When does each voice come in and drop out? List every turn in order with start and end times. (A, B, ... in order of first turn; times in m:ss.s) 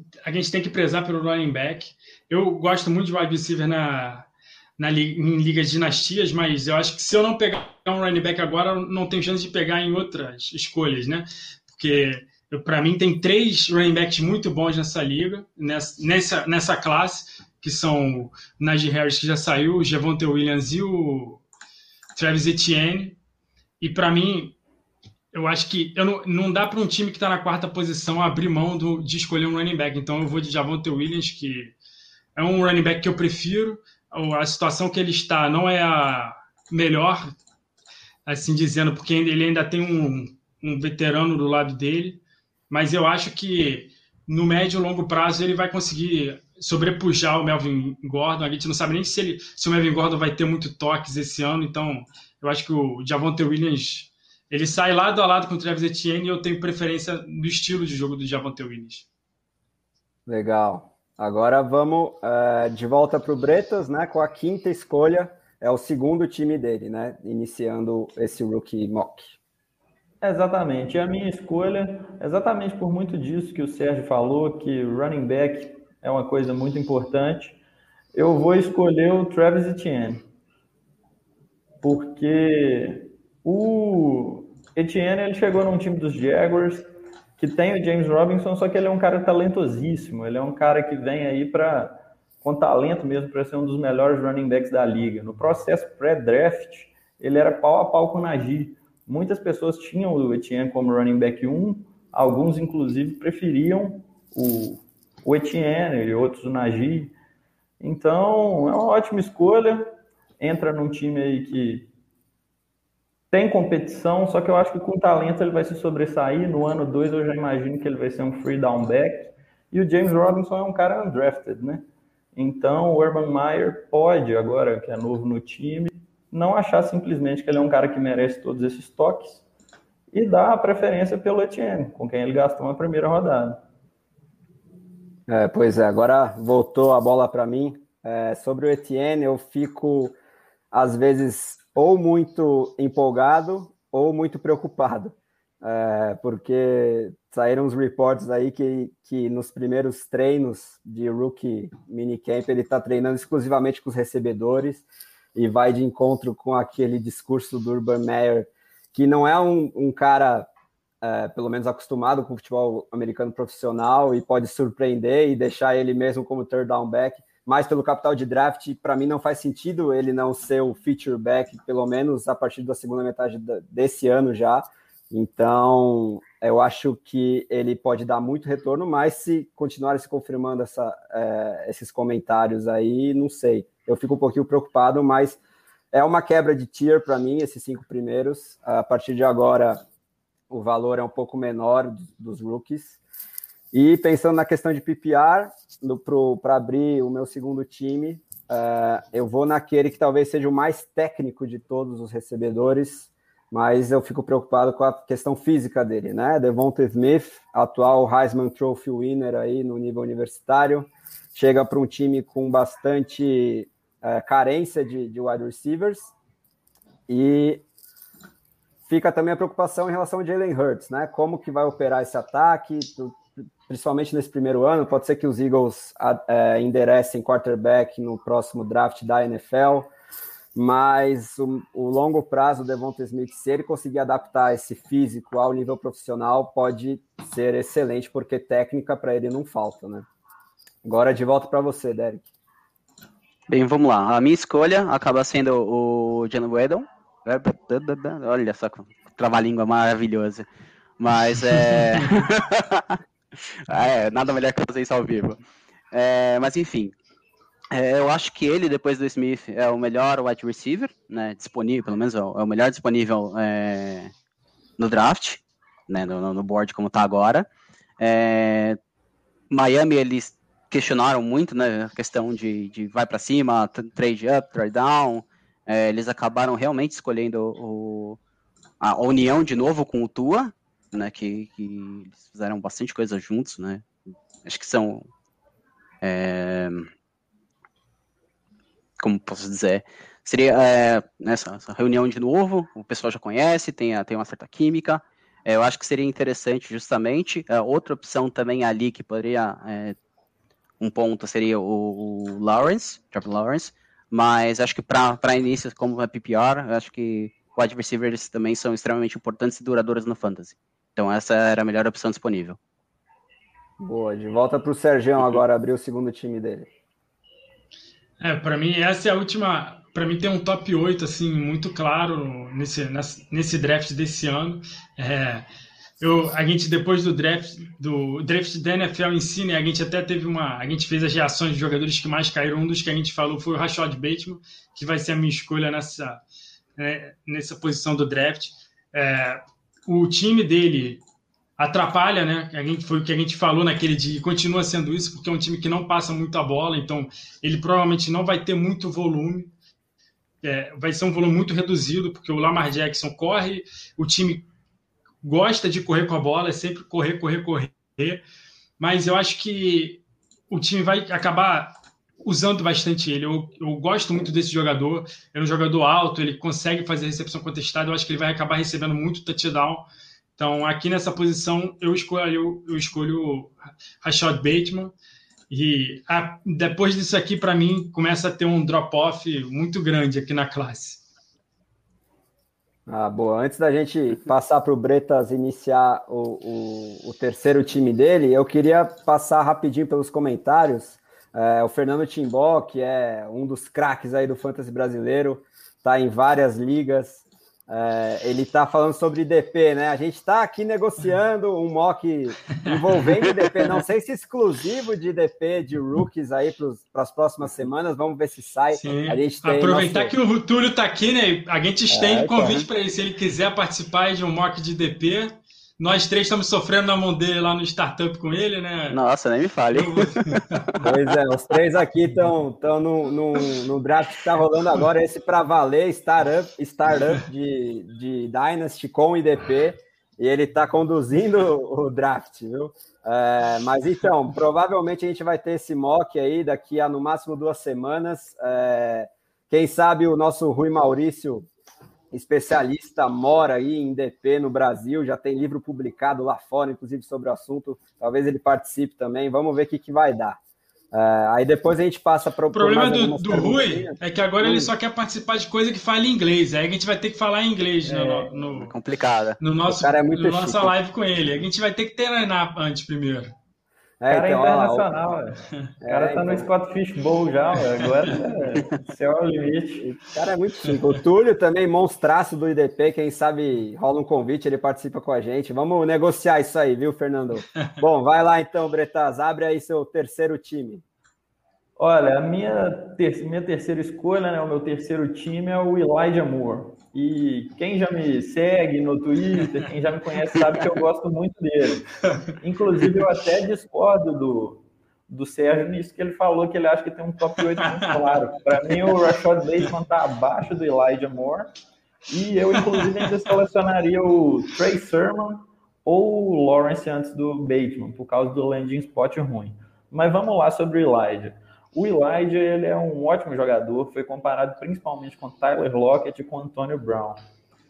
0:00.2-0:21.4 A
0:22.2-0:23.2 A
0:23.8-0:24.5 A
0:25.3-0:31.7 A
0:32.4-0:37.3 A
0:38.2-0:59.0 A
1:00.3-1:09.3 B
1:10.2-1:17.6 C
1:18.1-1:20.2 C
1:21.8-1:26.9 C
1:27.4-1:47.1 C
1:47.8-1:51.9 C
1:53.3-2:09.4 C
2:10.1-2:13.6 C
2:15.3-2:20.1 B
2:20.7-2:34.8 B
2:35.3-2:40.5 B
2:41.0-3:05.4 B
3:05.9-3:09.8 B
3:10.5-3:13.0 B
3:13.7-3:36.1 B
3:37.1-3:37.6 B
3:38.9-3:49.9 B
3:50.5-4:00.0 B
4:00.8-4:02.2 B
4:03.5-4:10.4 D
4:11.0-4:13.0 D
4:13.7-4:15.4 D
4:15.9-4:16.9 D
4:17.7-4:24.1 D
4:24.8-4:27.5 D
4:28.0-4:28.8 D
4:29.5-4:38.2 D
4:38.8-4:43.9 D
4:44.4-4:45.1 D
4:46.0-4:46.9 D
4:49.0-5:00.0 D
5:00.8-5:12.6 D
5:13.8-5:16.7 B
5:18.2-5:25.4 A
5:26.0-5:36.2 A
5:36.8-5:41.0 A
5:41.6-5:49.5 A
5:50.4-5:54.4 A
5:55.2-5:58.2 A
5:58.8-6:09.8 A
6:10.4-6:14.9 A
6:15.5-6:21.0 A
6:22.9-6:50.1 B
6:48.7-6:59.0 A
6:51.9-6:52.6 B
6:58.9-7:00.4 D
6:59.7-7:00.7 A
7:00.8-7:21.5 B
7:22.1-7:30.4 B
7:30.9-7:34.7 B
7:32.5-7:38.7 A
7:38.2-7:39.4 D
7:39.4-7:43.3 A
7:39.7-7:40.7 B
7:44.0-7:44.9 B
7:44.1-7:49.9 C
7:45.8-7:46.5 B
7:49.8-8:00.8 B
8:01.8-8:21.5 C
8:22.1-8:37.2 C